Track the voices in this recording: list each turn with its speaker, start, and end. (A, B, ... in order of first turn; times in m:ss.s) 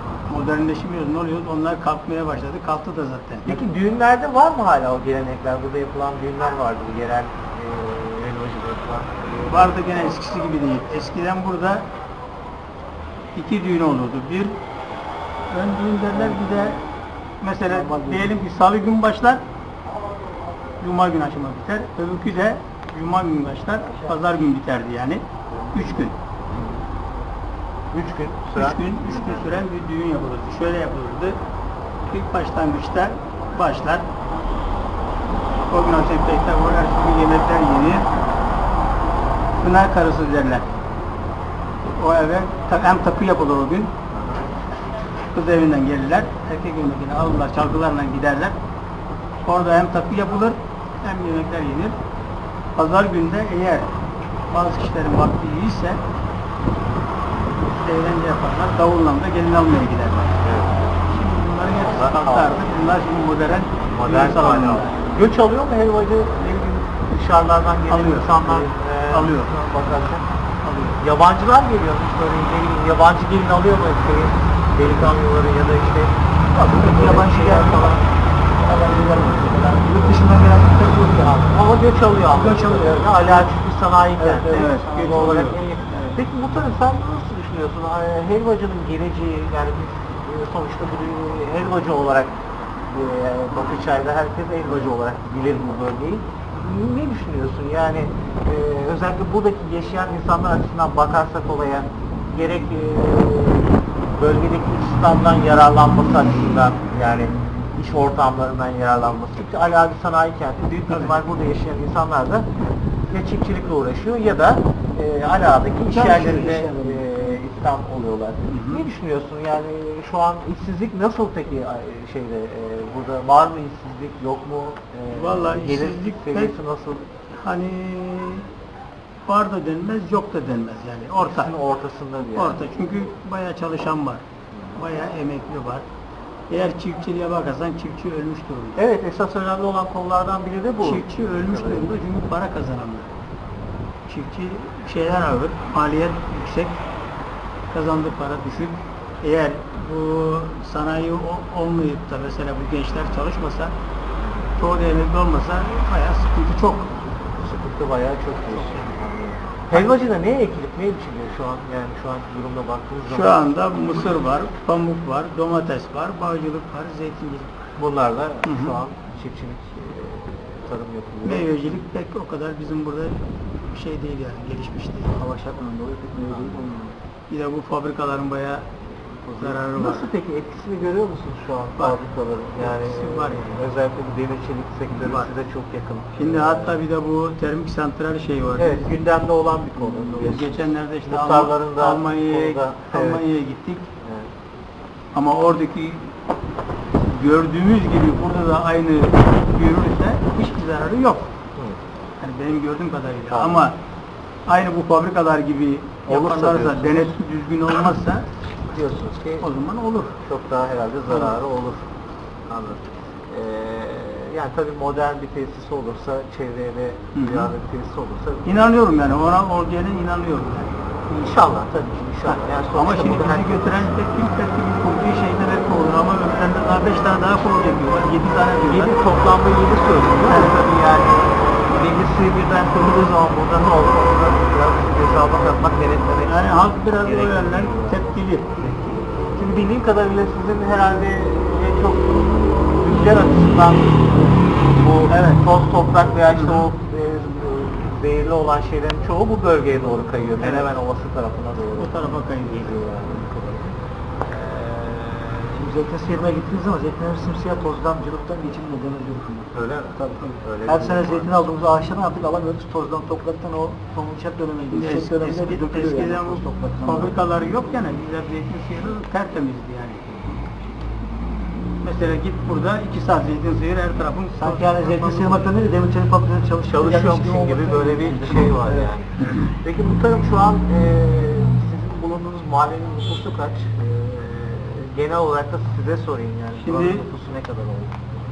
0:00.3-0:03.6 A
0:03.5-0:10.1 B
0:09.5-0:11.9 A
0:13.4-0:14.6 A
0:15.5-0:16.8 A
0:16.1-0:16.8 C
0:17.4-0:19.4 A
0:17.7-0:18.4 C
0:20.8-0:26.2 A
0:26.5-0:26.8 B
0:27.9-0:29.6 B
0:28.6-0:31.4 A
0:32.1-0:34.1 A
0:35.7-0:38.1 A
0:39.6-0:40.7 A
0:42.0-0:43.9 A
0:44.1-0:44.5 B
0:45.3-0:48.6 A
0:49.4-0:52.0 A
0:52.8-0:53.9 A
0:54.5-0:56.0 A
0:57.7-1:00.4 A
1:00.4-1:00.9 B
1:01.0-1:05.1 A
1:01.7-1:02.6 B
1:03.9-1:10.2 B
1:07.9-1:09.5 A
1:10.6-1:11.0 A
1:11.0-1:16.2 B
1:16.6-1:21.5 C
1:16.8-1:18.0 B
1:21.2-1:52.5 B
1:22.3-1:23.5 C
1:24.2-1:25.6 C
1:24.4-1:26.1 A
1:50.9-1:51.2 A
1:53.1-2:07.1 B
1:55.9-1:57.4 C
1:58.5-1:58.9 A
2:05.1-2:06.5 A
2:07.3-2:08.5 A
2:09.3-2:11.5 A
2:11.2-2:12.6 B
2:12.3-2:14.2 A
2:14.5-2:14.8 B
2:14.8-2:15.9 A
2:16.5-2:18.9 A
2:18.8-2:22.0 B
2:20.8-2:23.1 A
2:24.1-2:26.8 A
2:27.7-2:33.7 A
2:34.2-2:34.5 B
2:34.6-2:37.0 A
2:37.4-2:44.2 B
2:38.5-2:39.0 A
2:43.1-2:47.6 A
2:47.8-2:51.5 B
2:48.4-2:48.8 A
2:51.2-2:55.2 A
2:55.1-2:56.8 C
2:56.3-2:57.0 B
2:57.3-2:58.7 A
2:59.3-3:06.8 B
2:59.3-3:00.1 A
3:02.6-3:03.7 A
3:04.9-3:05.3 A
3:06.2-3:08.9 A
3:08.6-3:13.3 B
3:10.2-3:13.9 A
3:14.0-3:14.3 B
3:15.1-3:16.1 A
3:17.1-3:21.3 A
3:22.2-3:23.8 A
3:23.3-3:23.7 B
3:24.5-3:28.3 A
3:26.1-3:27.2 B
3:28.7-3:29.5 B
3:29.4-3:30.2 A
3:30.2-3:31.9 B
3:31.1-3:31.3 A
3:32.5-3:38.7 B
3:37.2-3:37.5 A
3:38.4-3:40.8 A
3:41.1-3:43.9 B
3:42.2-3:49.0 A
3:48.6-4:15.7 B
3:50.2-3:50.6 A
3:56.2-3:58.5 A
4:05.1-4:05.4 A
4:06.3-4:06.7 A
4:10.4-4:10.7 A
4:11.8-4:12.8 A
4:15.5-4:27.2 C
4:19.5-4:21.5 B
4:24.7-4:30.0 A
4:31.8-4:35.5 A
4:34.4-4:38.9 C
4:36.7-4:48.1 B
4:46.6-4:47.0 A